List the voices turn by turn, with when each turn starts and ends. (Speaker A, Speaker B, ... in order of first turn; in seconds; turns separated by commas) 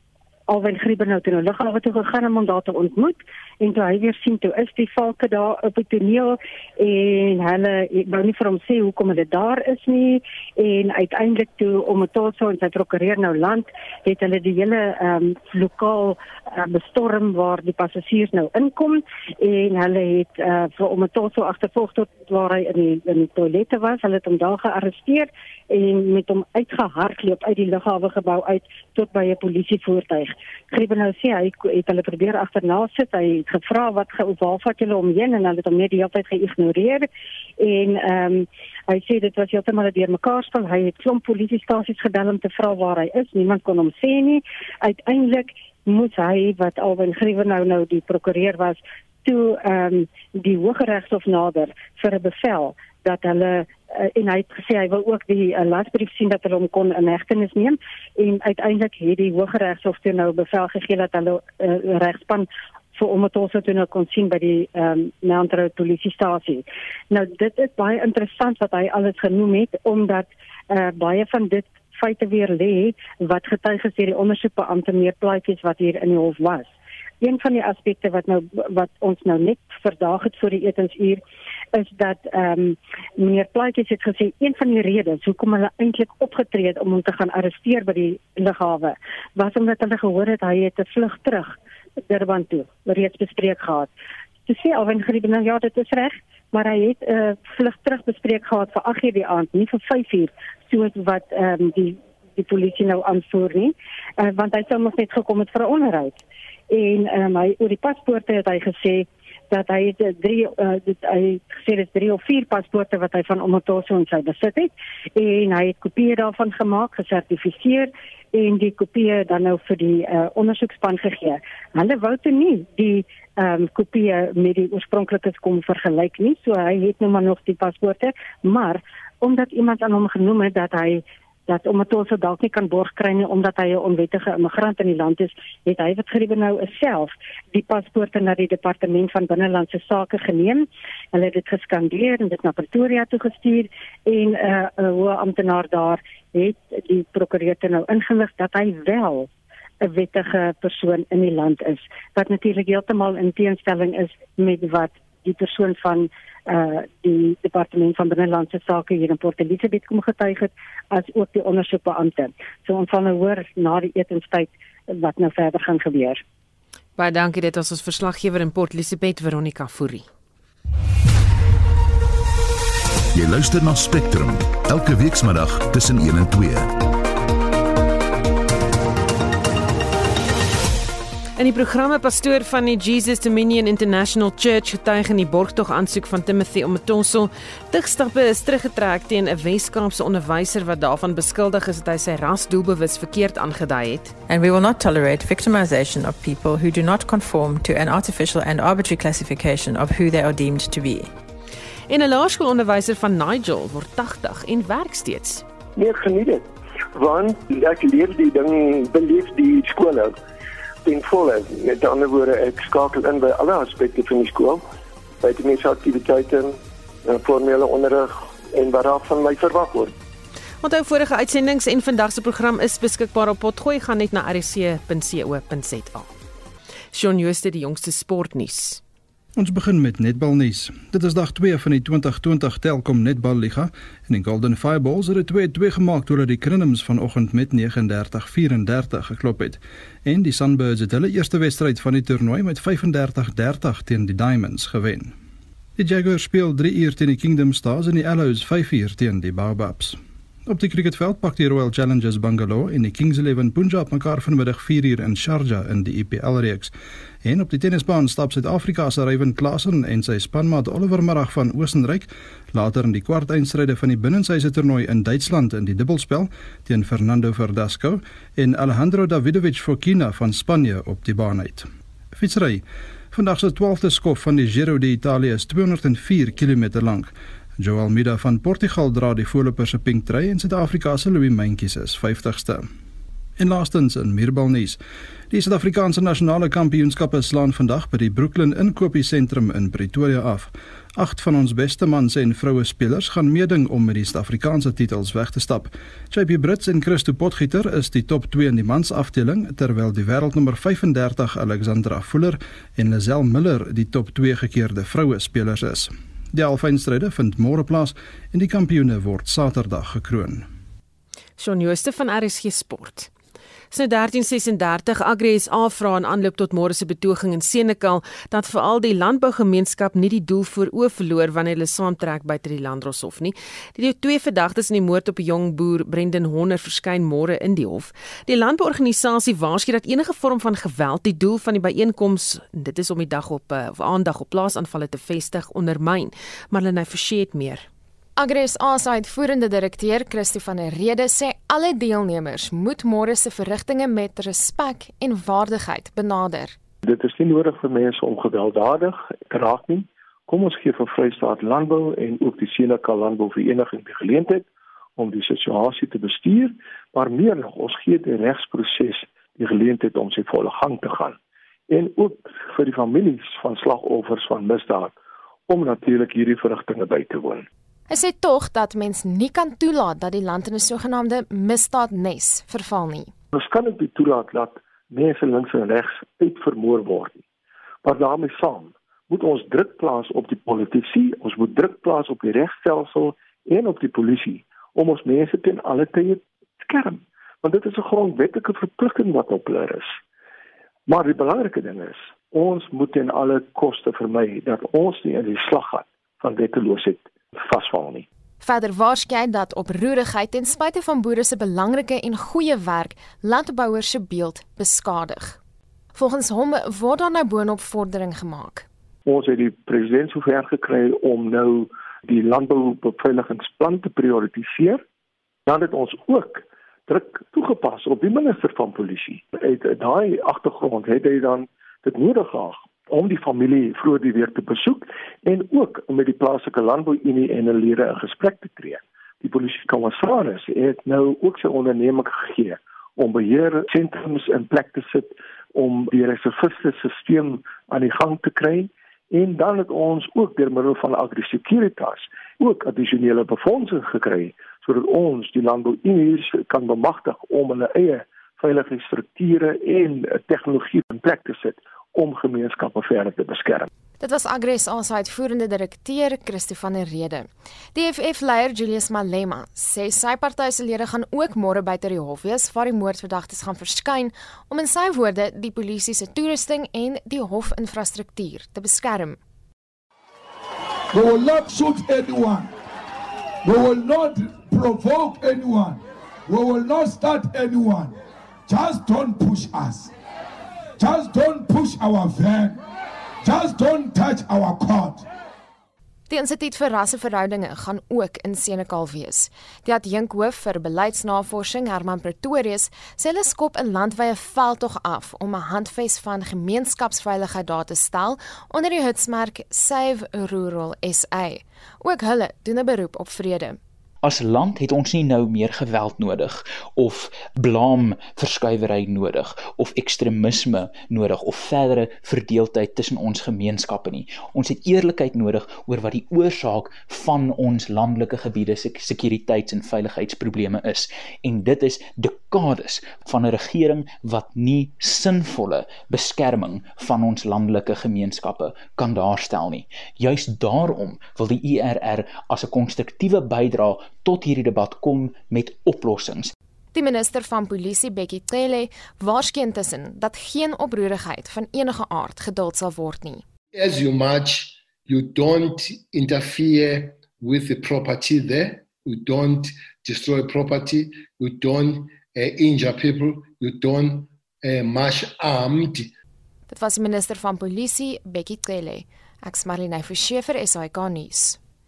Speaker A: 0.5-37.1, Speaker A: 37.6-81.2, Speaker A: 81.7-91.6, Speaker A: 92.1-93.9, Speaker A: 94.5-149.3, Speaker A: 149.8-166.2, Speaker B: 167.0-170.1, Speaker C: 173.1-176.7, Speaker B: 181.4-194.2, Speaker D: 194.3-201.1, Speaker B: 201.9-205.4, Speaker E: 205.8-210.2, Speaker E: 210.8-214.6, Speaker E: 215.2-219.9, Speaker B: 220.6-226.1, Speaker B: 226.9-228.8, Speaker F: 229.4-245.1, Speaker F: 245.8-256.7, Speaker F: 257.2-282.7, Speaker F: 283.4-284.8, Speaker F: 285.3-310.5, Speaker B: 311.4-313.1, Speaker B: 313.7-337.7, Speaker G: 338.2-346.6, Speaker H: 346.8-361.2, Speaker H: 361.7-365.0, Speaker H: 365.5-367.5, Speaker G: 367.9-373.1, Speaker H: 373.3-377.2, Speaker H: 377.8-390.0, Speaker H: 390.9-398.1, Speaker G: 398.4-405.4, Speaker G: 405.9-408.7, Speaker H: 409.1-414.8, Speaker H: 415.5-453.7, Speaker G: 454.0-469.2, Speaker I: 470.9-472.5, Speaker I: 473.4-477.9, Speaker I: 478.5-479.9, Speaker I: 480.8-482.6, Speaker I: 483.2-485.0, Speaker G: 486.1-503.6, Speaker J: 504.0-536.3, Speaker G: 536.7-543.2, Speaker K: 543.5-555.9, Speaker G: 556.5-561.4